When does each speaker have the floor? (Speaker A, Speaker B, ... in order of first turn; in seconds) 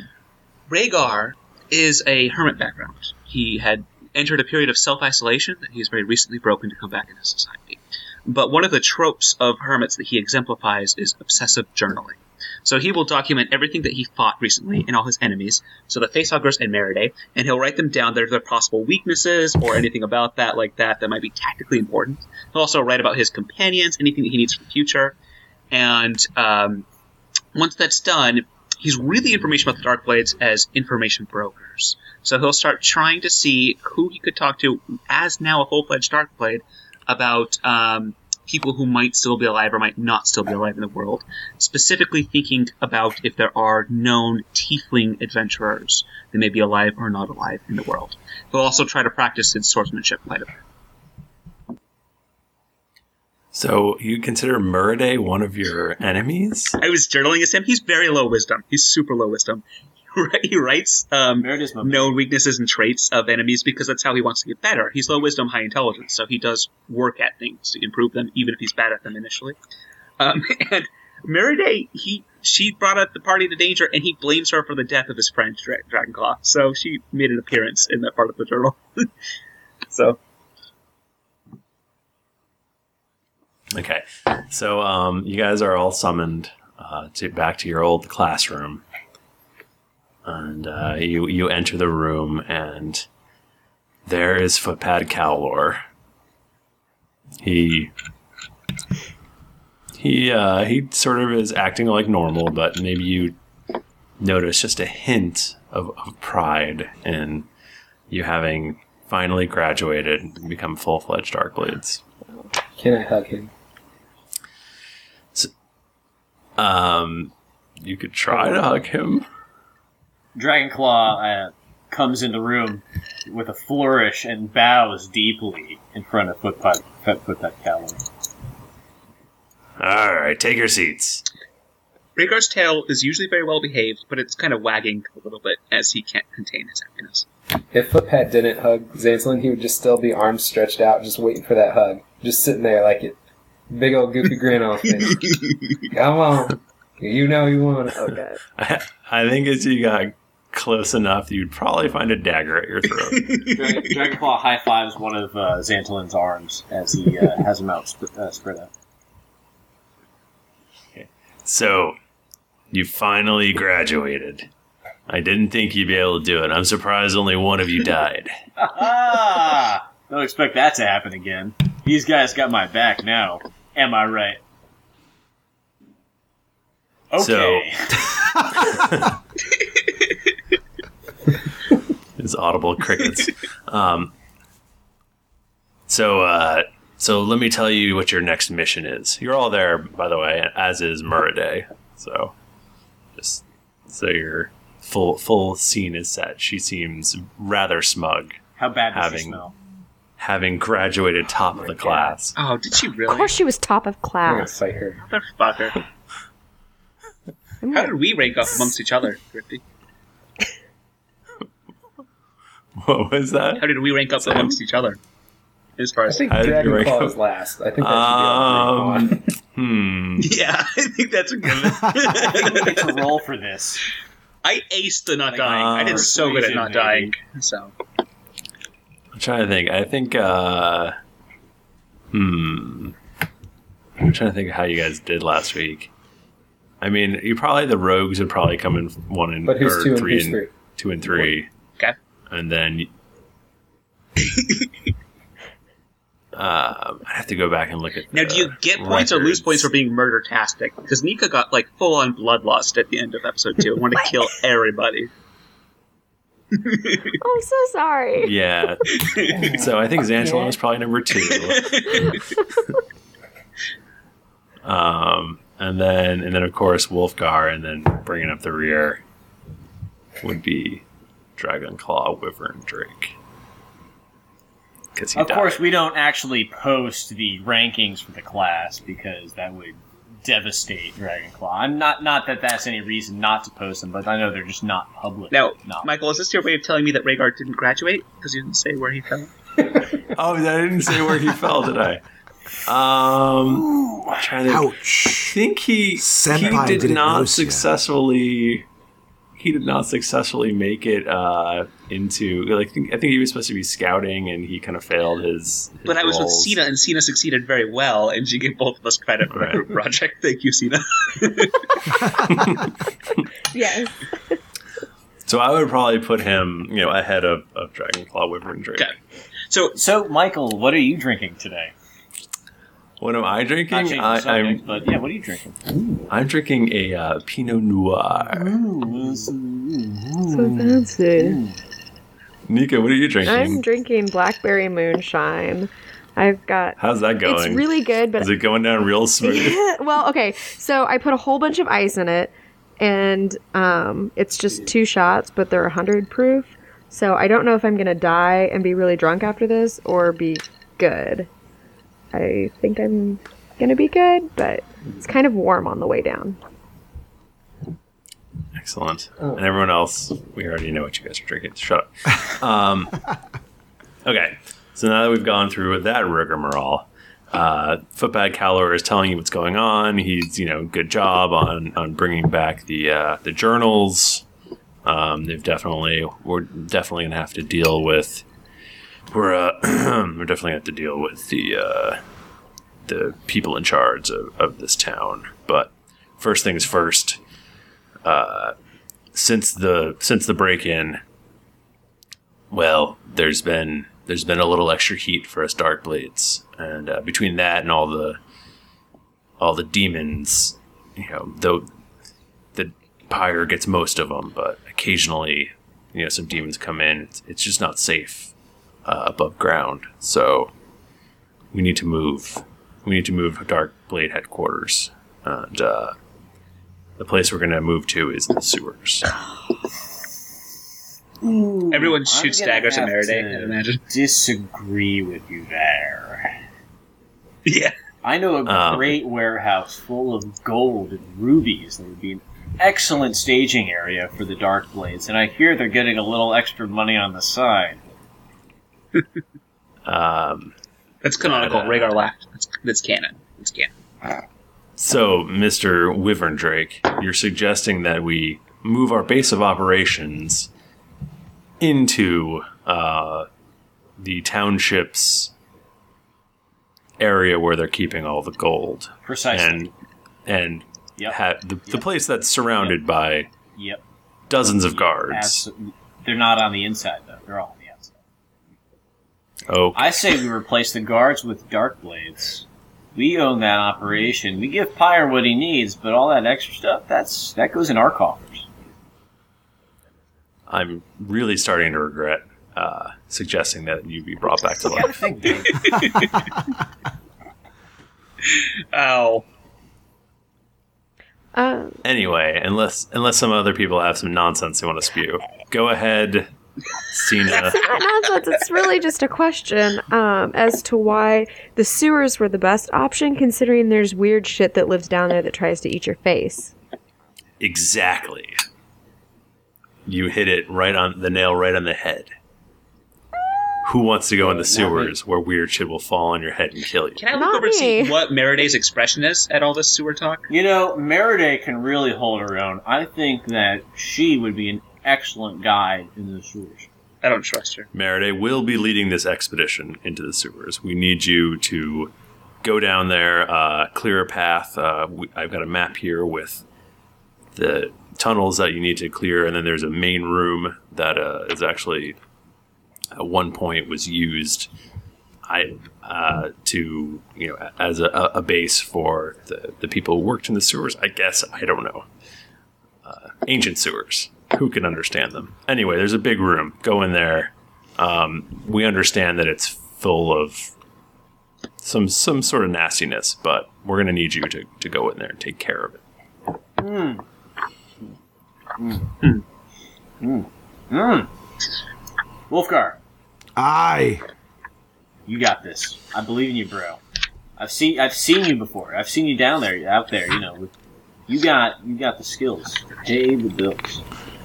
Speaker A: 0.7-25.2, 25.7-26.9, 27.6-50.5, 56.8-69.6, 70.2-79.1, 79.9-80.2, 132.2-137.3, 145.1-145.8, 153.1-154.0, 202.3-203.3, 205.0-205.8, 207.7-209.6, 213.6-215.0, 215.8-216.3, 220.2-223.1, 224.4-227.8, 244.2-244.6, 248.1-255.1, 256.5-257.1, 258.9-259.7, 261.2-262.2, 285.3-289.3, 305.9-312.2, 319.5-319.8, 421.7-423.8, 427.4-427.8, 441.0-443.7, 485.5-486.3, 488.2-489.3, 517.0-520.3, 527.0-527.7
Speaker B: 53.5-56.8, 83.7-88.8, 90.2-93.0, 94.1-95.8, 97.4-97.9, 100.0-103.3, 104.2-107.5, 108.1-112.0, 116.6-119.3, 129.8-131.2, 148.6-153.4, 160.9-162.0, 162.7-164.5, 165.1-168.3, 177.2-179.1, 182.2-184.1, 185.9-192.3, 193.2-198.4, 198.9-199.4, 200.2-202.3, 212.8-214.6, 216.3-217.2, 217.8-220.3, 225.5-226.1, 229.2-230.9, 232.1-232.9, 234.0-235.9, 236.8-241.5, 242.3-242.9, 246.3-249.7, 258.2-262.2, 264.6-269.0, 270.2-270.8, 271.4-273.1, 275.0-275.6, 290.1-292.0, 292.6-298.7, 299.4-306.6, 309.3-309.6, 312.1-313.2, 315.2-318.9, 323.0-324.6, 326.1-328.6, 332.5-333.6, 336.8-339.6, 358.6-363.0, 364.1-374.2, 374.9-378.2, 379.1-382.0, 382.9-387.2, 388.1-388.6, 389.1-391.0, 392.5-398.2, 399.4-401.7, 402.6-408.3, 408.9-410.5, 411.5-415.9, 417.0-419.1, 428.5-429.0, 439.9-440.5, 441.2-442.0, 444.8-450.5, 451.6-453.3, 454.0-455.3, 457.0-459.7, 460.3-463.3, 464.3-465.5, 469.5-470.3, 480.5-485.0, 491.8-496.3, 496.9-497.6, 507.4-508.3, 509.9-512.1, 513.6-517.1, 527.7-531.9, 532.4-536.4, 537.4-542.0, 542.9-544.5, 545.3-551.9, 552.9-560.5, 561.6-565.8
Speaker C: 61.4-62.2, 120.3-128.0, 153.5-158.7, 168.6-174.4, 177.1-178.1, 198.6-199.5, 222.1-223.8, 225.3-227.2, 275.2-285.9, 293.5-294.3, 319.8-321.7, 323.7-326.0, 328.3-331.6, 421.2-426.4, 428.0-437.8, 459.0-459.7, 461.0-461.9, 463.6-463.8, 464.7-467.9, 469.8-478.5, 484.6-485.9, 514.2-514.9, 520.3-526.7, 566.6-567.0, 568.6-569.2, 570.0-571.1, 572.3-572.8, 575.1-576.8, 577.4-580.5, 581.1-583.8
Speaker D: 112.8-113.5, 118.3-118.7, 137.7-143.2, 143.7-145.4, 145.9-148.1, 204.3-205.0, 216.1-219.2, 239.4-240.5, 259.4-259.7
Speaker E: 147.9-148.4, 203.1-204.5, 207.6-207.9, 257.2-258.3, 313.5-314.0, 330.3-331.4, 333.3-338.3, 339.2-351.3, 352.1-356.4, 491.4-491.8, 497.3-506.5, 517.1-518.0
Speaker F: 294.4-295.4, 296.0-297.7, 573.4-574.0